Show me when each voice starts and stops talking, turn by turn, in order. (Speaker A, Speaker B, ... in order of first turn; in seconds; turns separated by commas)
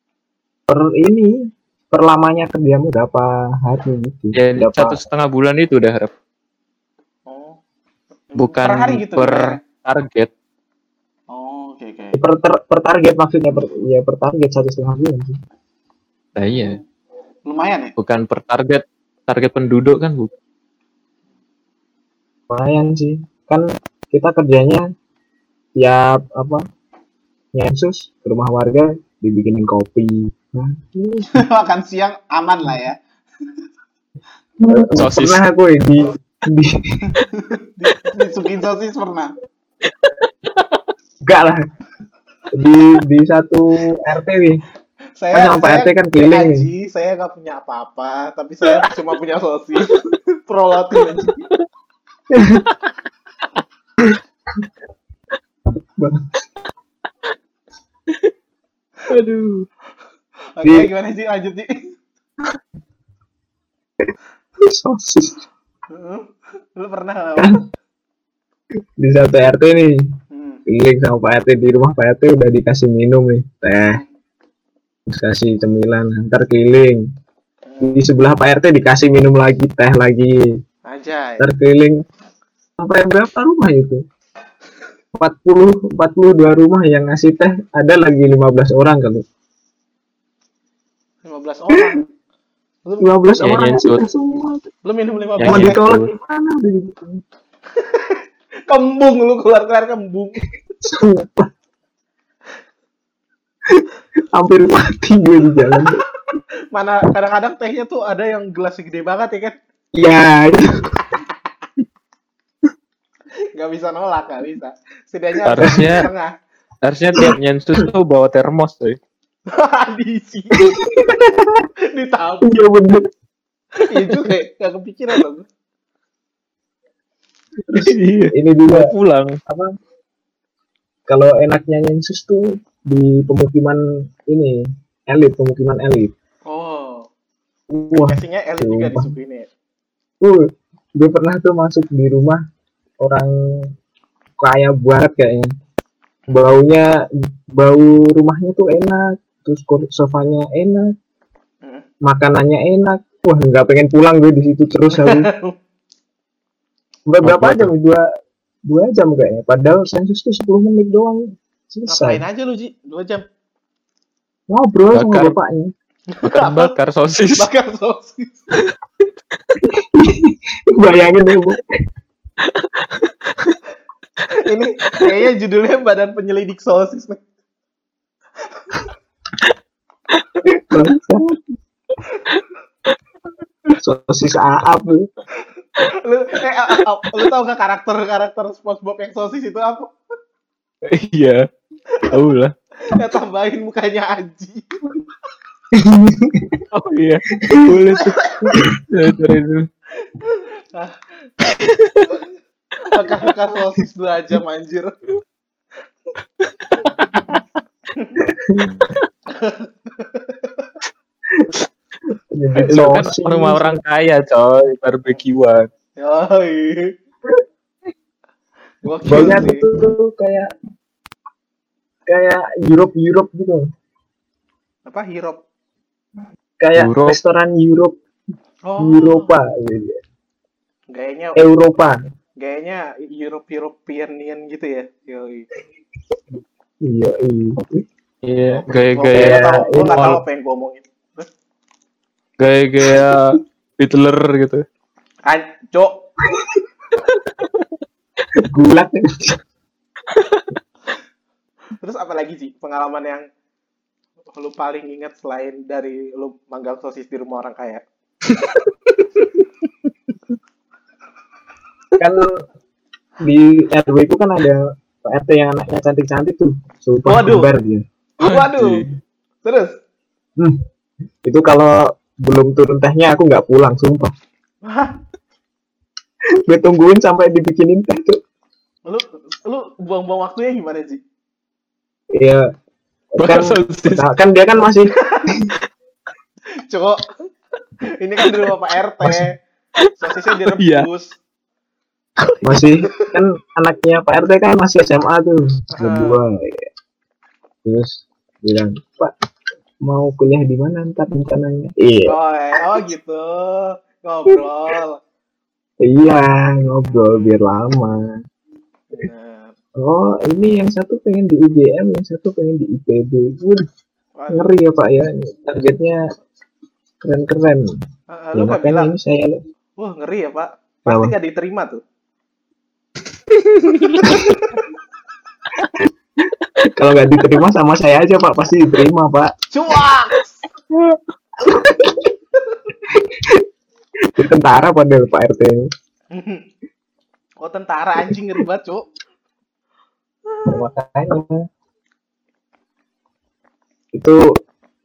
Speaker A: 0.7-5.0, Speaker B: 4.3-6.1, Speaker C: 7.3-7.6, Speaker C: 8.3-9.6, Speaker B: 8.4-10.3, Speaker C: 11.3-12.2, Speaker A: 12.1-15.4, Speaker B: 16.4-16.8, Speaker C: 17.5-17.9, Speaker B: 18.0-20.3, Speaker A: 22.5-24.9, Speaker A: 25.8-26.6, Speaker A: 27.5-31.4, Speaker C: 31.3-33.0, Speaker A: 34.6-37.2, Speaker B: 35.0-35.4, Speaker C: 37.3-39.4, Speaker A: 41.2-41.6, Speaker A: 42.5-44.6, Speaker C: 45.2-51.5, Speaker A: 45.3-46.7, Speaker A: 52.3-52.7, Speaker A: 54.0-54.6, Speaker A: 56.0-56.3, Speaker B: 59.1-59.7, Speaker C: 60.6-62.0, Speaker A: 60.6-60.9, Speaker A: 64.0-65.4, Speaker C: 65.9-67.6, Speaker A: 67.4-67.6, Speaker A: 69.0-70.0, Speaker C: 70.3-70.6, Speaker A: 70.7-74.0, Speaker A: 75.1-77.0, Speaker C: 77.7-78.0, Speaker A: 77.8-80.5, Speaker C: 80.9-81.5, Speaker A: 81.4-82.0, Speaker A: 82.8-84.0, Speaker A: 85.2-89.2, Speaker C: 91.2-92.0, Speaker A: 91.7-92.0, Speaker C: 92.9-93.1, Speaker A: 93.0-94.7, Speaker B: 93.4-94.0, Speaker C: 94.8-95.8, Speaker B: 95.4-96.1, Speaker A: 95.5-97.2, Speaker C: 97.8-100.5, Speaker A: 100.8-101.5, Speaker A: 103.7-106.0, Speaker C: 106.7-109.5, Speaker A: 110.0-111.2, Speaker C: 113.6-116.3, Speaker B: 115.5-116.1, Speaker B: 116.8-119.0, Speaker A: 117.2-117.9, Speaker C: 119.5-120.8, Speaker A: 120.5-121.7, Speaker C: 121.9-122.5, Speaker A: 122.4-123.1, Speaker C: 123.8-125.5, Speaker A: 127.7-128.9, Speaker B: 127.7-129.4, Speaker A: 129.5-129.7, Speaker A: 131.1-136.1, Speaker C: 136.5-137.1, Speaker A: 137.7-139.1, Speaker C: 137.9-139.5, Speaker A: 140.2-142.4, Speaker A: 143.0-143.7, Speaker A: 144.4-145.5, Speaker A: 146.3-150.9, Speaker A: 152.0-155.3, Speaker C: 154.9-155.6, Speaker A: 157.1-158.0, Speaker B: 157.2-157.7, Speaker A: 158.7-162.2, Speaker C: 161.9-163.2, Speaker A: 164.5-165.7, Speaker B: 164.9-165.3, Speaker C: 166.1-166.7, Speaker B: 166.2-167.5, Speaker C: 167.4-168.6, Speaker A: 169.6-171.8, Speaker B: 172.4-173.6, Speaker C: 174.3-177.2, Speaker C: 178.5-178.9, Speaker A: 180.4-181.6, Speaker A: 183.8-185.1, Speaker C: 185.4-189.9, Speaker B: 190.8-191.5, Speaker B: 192.1-192.5, Speaker C: 192.8-194.7, Speaker A: 195.7-196.7, Speaker B: 196.7-199.7, Speaker A: 197.4-199.2, Speaker C: 200.1-201.0, Speaker B: 201.4-202.1, Speaker C: 202.8-204.9, Speaker B: 206.8-207.4, Speaker A: 208.2-208.9, Speaker C: 209.3-210.7, Speaker A: 212.3-213.8, Speaker B: 212.7-215.7, Speaker C: 216.0-216.9, Speaker C: 218.8-219.7, Speaker A: 219.1-220.5, Speaker A: 222.1-223.7, Speaker C: 224.9-225.4, Speaker A: 226.6-228.0, Speaker B: 226.8-227.2, Speaker C: 228.7-229.3, Speaker A: 228.8-230.0, Speaker C: 230.9-231.5, Speaker A: 231.4-232.0, Speaker C: 232.4-235.5, Speaker A: 236.8-237.8, Speaker B: 238.2-240.2, Speaker C: 238.5-241.3, Speaker A: 239.1-240.2, Speaker B: 242.4-244.7, Speaker C: 245.3-246.1, Speaker B: 247.1-247.7, Speaker A: 248.4-249.4, Speaker B: 250.1-250.5, Speaker C: 251.8-253.3, Speaker C: 254.4-257.8, Speaker B: 258.3-258.6, Speaker A: 262.0-262.4, Speaker A: 263.2-267.9, Speaker C: 267.1-267.5, Speaker C: 268.2-268.9, Speaker B: 268.2-268.9, Speaker C: 269.4-269.8, Speaker A: 271.2-274.1, Speaker C: 274.6-275.0, Speaker A: 276.5-278.2, Speaker C: 278.9-281.0, Speaker A: 282.1-282.4, Speaker A: 283.2-285.5, Speaker B: 283.2-284.1, Speaker C: 285.0-285.3, Speaker C: 286.7-287.1, Speaker C: 288.0-289.4, Speaker C: 290.0-291.2, Speaker B: 290.5-290.9, Speaker A: 292.4-296.6, Speaker C: 292.6-293.1, Speaker C: 295.7-296.2, Speaker A: 297.6-299.1, Speaker A: 299.8-302.2, Speaker C: 302.1-305.0, Speaker A: 305.8-308.2, Speaker C: 307.1-307.3, Speaker C: 308.9-309.6, Speaker A: 309.8-313.7, Speaker C: 314.2-314.5, Speaker A: 314.3-316.0, Speaker A: 317.0-317.8, Speaker C: 318.1-318.9, Speaker A: 318.4-319.4, Speaker C: 319.8-321.8, Speaker A: 320.9-321.1, Speaker C: 323.7-324.6, Speaker B: 323.8-324.1, Speaker A: 326.6-329.3, Speaker C: 329.5-330.4, Speaker A: 331.4-332.1, Speaker A: 332.9-333.5, Speaker A: 334.0-335.7, Speaker C: 336.1-336.5, Speaker C: 337.4-338.9, Speaker C: 340.3-340.7, Speaker A: 340.5-341.4, Speaker A: 343.9-344.2